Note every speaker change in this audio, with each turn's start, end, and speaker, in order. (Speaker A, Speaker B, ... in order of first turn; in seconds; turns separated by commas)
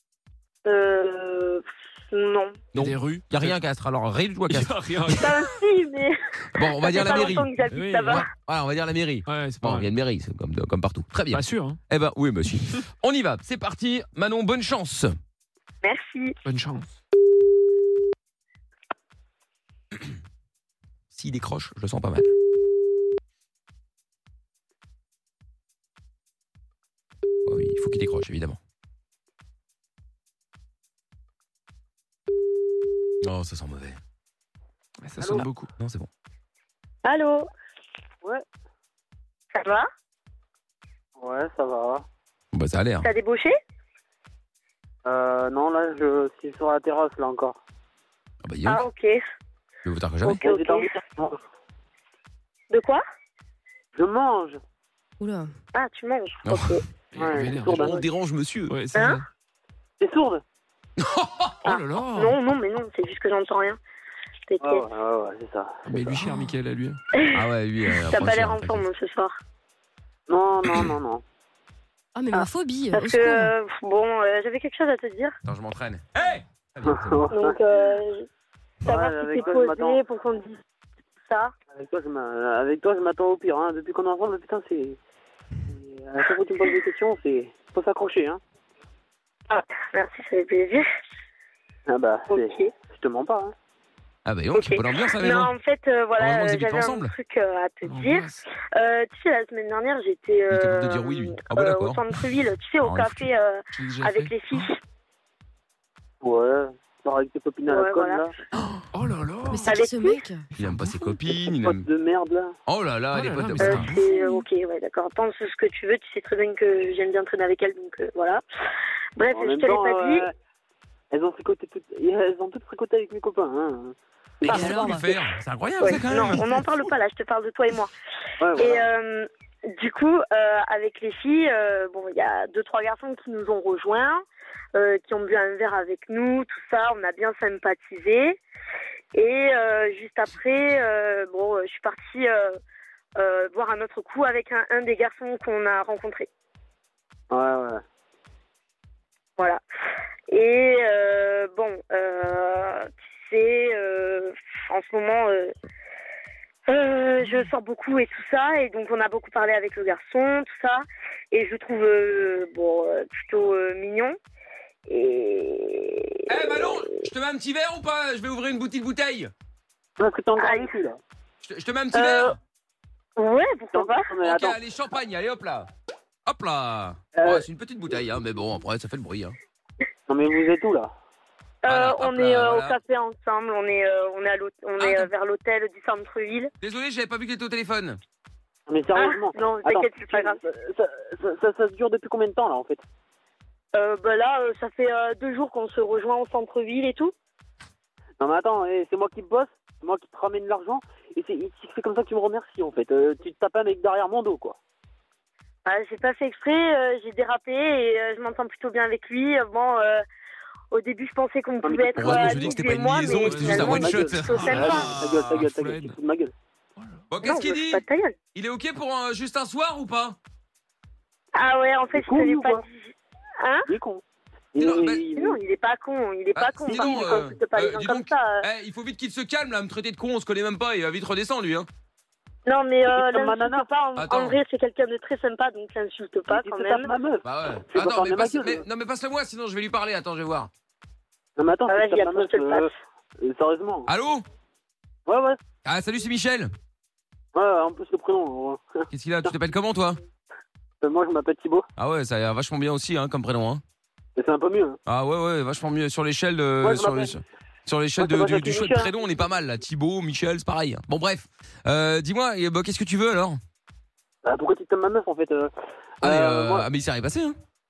Speaker A: 0.6-2.6, Speaker B: 2.7-5.3, Speaker C: 2.7-3.6, Speaker C: 4.5-5.5, Speaker A: 5.1-8.2, Speaker B: 6.5-7.5, Speaker C: 7.0-8.2, Speaker B: 8.0-15.1, Speaker C: 9.3-9.9, Speaker C: 11.3-11.8, Speaker A: 15.8-16.3, Speaker C: 16.4-16.9, Speaker B: 21.1-22.3, Speaker B: 27.4-28.6, Speaker B: 33.2-34.0, Speaker C: 35.0-35.7, Speaker D: 35.2-35.4, Speaker B: 35.4-36.1, Speaker A: 37.0-37.5, Speaker A: 39.5-39.9, Speaker D: 41.2-42.0, Speaker B: 42.5-43.1, Speaker A: 43.0-43.5, Speaker D: 45.0-47.6, Speaker B: 48.4-48.8, Speaker A: 48.7-49.1, Speaker B: 49.8-50.4, Speaker A: 50.2-50.9, Speaker D: 50.4-51.4, Speaker A: 52.7-53.0, Speaker D: 53.9-54.6, Speaker E: 55.2-55.5, Speaker A: 55.7-56.8, Speaker B: 56.5-56.7, Speaker C: 57.1-57.9, Speaker D: 57.1-58.1, Speaker B: 57.3-58.7, Speaker C: 58.7-59.2, Speaker A: 58.9-59.2, Speaker D: 60.0-60.4, Speaker B: 61.0-61.7, Speaker A: 61.6-63.8, Speaker C: 61.7-62.4, Speaker A: 64.5-64.8, Speaker D: 64.6-65.8, Speaker C: 65.9-67.0, Speaker B: 66.0-66.4, Speaker A: 67.2-67.4, Speaker B: 67.3-68.9, Speaker A: 68.0-69.3, Speaker D: 70.3-71.2, Speaker E: 72.1-73.5, Speaker A: 72.3-75.3, Speaker B: 75.4-77.2, Speaker D: 76.8-77.6, Speaker A: 77.3-78.2, Speaker A: 78.8-80.6, Speaker D: 78.8-80.0, Speaker A: 81.3-81.5, Speaker D: 81.7-85.0, Speaker D: 85.7-88.4, Speaker A: 89.5-90.8, Speaker D: 91.9-93.5, Speaker A: 92.3-92.7, Speaker B: 94.2-95.5, Speaker A: 94.5-104.8, Speaker B: 96.2-97.1, Speaker C: 97.8-98.3, Speaker B: 100.5-102.0, Speaker B: 102.8-103.2, Speaker C: 103.8-104.7, Speaker D: 106.2-108.3, Speaker A: 107.7-108.3, Speaker C: 108.9-109.7, Speaker E: 109.5-110.5, Speaker A: 109.7-110.2, Speaker B: 110.5-111.8, Speaker C: 110.6-110.9, Speaker D: 111.3-112.5, Speaker B: 112.7-114.0, Speaker C: 113.1-114.0, Speaker A: 113.6-118.4, Speaker E: 114.0-114.4, Speaker A: 119.2-120.3, Speaker D: 119.3-120.3, Speaker D: 121.1-124.8, Speaker B: 124.5-126.4, Speaker E: 124.5-125.0, Speaker A: 125.8-127.9, Speaker D: 128.4-128.8, Speaker A: 128.6-134.2, Speaker A: 134.7-138.4, Speaker A: 139.1-142.6, Speaker A: 143.2-146.3, Speaker D: 147.3-147.8, Speaker A: 150.3-155.5, Speaker A: 156.7-164.2, Speaker A: 164.9-166.9, Speaker B: 166.3-169.3, Speaker D: 170.0-171.0, Speaker A: 170.4-170.8, Speaker B: 171.4-172.4, Speaker A: 171.9-172.3, Speaker A: 173.2-174.1, Speaker D: 173.7-174.6, Speaker B: 174.2-175.7, Speaker B: 176.2-179.3, Speaker D: 177.2-177.4, Speaker D: 180.1-180.9, Speaker A: 181.6-186.5, Speaker B: 181.7-182.8, Speaker B: 184.8-185.1, Speaker B: 186.6-188.0, Speaker D: 188.7-192.8, Speaker A: 188.9-190.4, Speaker A: 193.7-197.1, Speaker D: 198.2-204.6, Speaker A: 205.6-210.0, Speaker A: 210.7-214.9, Speaker D: 211.6-212.6, Speaker B: 211.9-215.2, Speaker C: 213.0-213.8, Speaker D: 213.4-216.3, Speaker C: 214.3-216.0, Speaker B: 217.1-217.8, Speaker A: 217.2-218.1, Speaker B: 218.3-220.2, Speaker A: 221.3-222.9, Speaker D: 221.9-222.6, Speaker D: 223.7-224.0, Speaker D: 224.5-225.4, Speaker B: 224.6-225.0, Speaker A: 225.1-228.4, Speaker B: 226.3-231.7, Speaker D: 226.7-227.2, Speaker A: 232.4-236.9, Speaker D: 232.9-233.7, Speaker B: 233.9-234.4, Speaker D: 236.3-238.6, Speaker B: 237.2-240.5, Speaker D: 241.4-243.9, Speaker A: 241.7-242.7, Speaker B: 243.9-244.2, Speaker D: 245.1-245.4, Speaker B: 245.6-246.5, Speaker D: 247.3-248.8, Speaker B: 248.9-250.0, Speaker D: 250.8-251.7, Speaker B: 251.8-253.6, Speaker D: 254.2-254.8, Speaker B: 254.8-263.4, Speaker D: 256.6-257.1, Speaker D: 258.0-258.9, Speaker D: 264.2-265.5, Speaker B: 266.0-267.4, Speaker D: 266.0-266.6